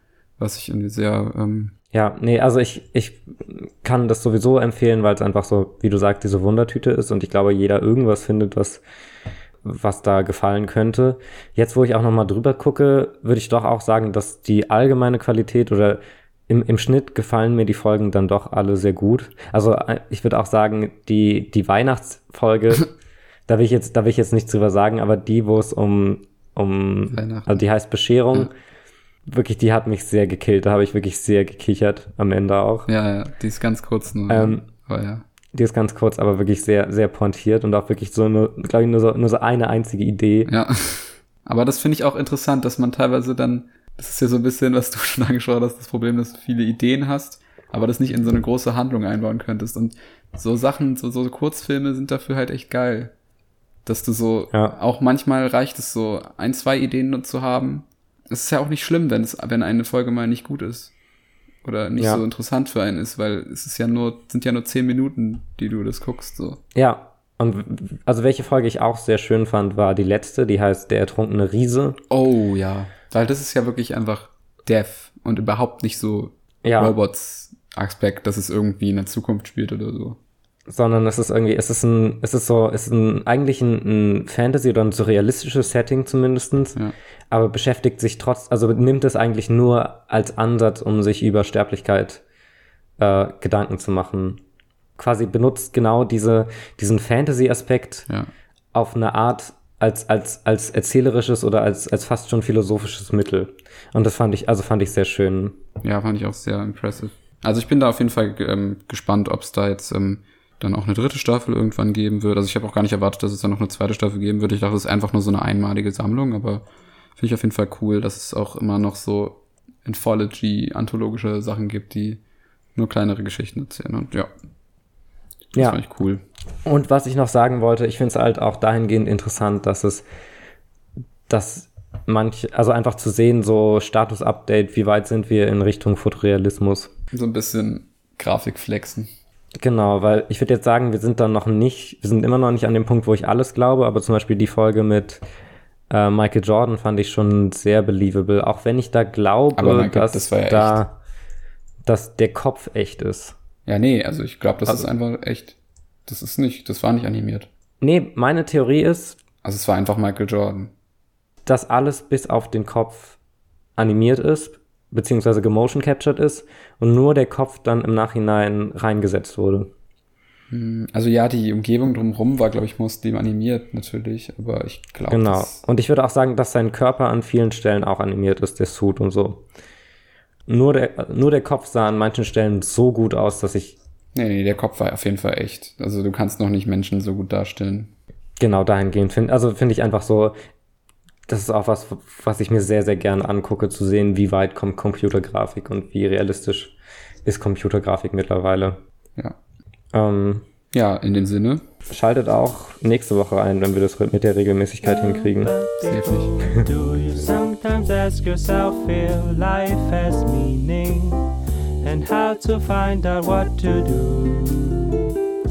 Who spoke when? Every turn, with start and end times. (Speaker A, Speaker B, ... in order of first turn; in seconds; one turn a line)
Speaker A: 0.4-1.7
Speaker B: 1.9-8.8
Speaker B: 9.6-22.9
Speaker B: 23.5-28.5
Speaker A: 27.1-27.6
Speaker B: 29.2-32.9
Speaker A: 32.9-35.2
Speaker B: 34.3-34.6
Speaker B: 35.5-40.5
Speaker A: 40.5-53.1
Speaker A: 53.8-60.9
Speaker A: 61.6-66.6
Speaker B: 66.7-72.0
Speaker A: 72.1-80.2
Speaker B: 76.6-77.0
Speaker B: 80.7-86.8
Speaker B: 87.3-92.2
Speaker B: 93.0-94.4
Speaker B: 95.0-98.1
Speaker B: 98.7-105.6
Speaker A: 105.8-116.7
Speaker A: 117.2-122.2
Speaker A: 122.7-124.3
Speaker A: 125.6-126.2
Speaker B: 126.6-130.1
Speaker B: 131.3-136.9
Speaker A: 137.1-139.1
Speaker B: 139.6-145.2
Speaker B: 145.9-151.0
Speaker A: 149.6-150.8
Speaker B: 151.8-153.3
Speaker A: 153.7-157.5
Speaker B: 157.8-159.2
Speaker A: 159.4-160.7
Speaker B: 161.4-163.2
Speaker B: 163.8-169.7
Speaker A: 170.5-175.6
Speaker B: 175.1-179.4
Speaker B: 180.5-183.7
Speaker A: 184.1-187.9
Speaker B: 188.4-190.3
Speaker B: 191.3-198.8
Speaker B: 199.9-200.4
Speaker A: 200.7-201.6
Speaker B: 201.9-205.5
Speaker C: 204.8-215.0
Speaker A: 205.8-206.3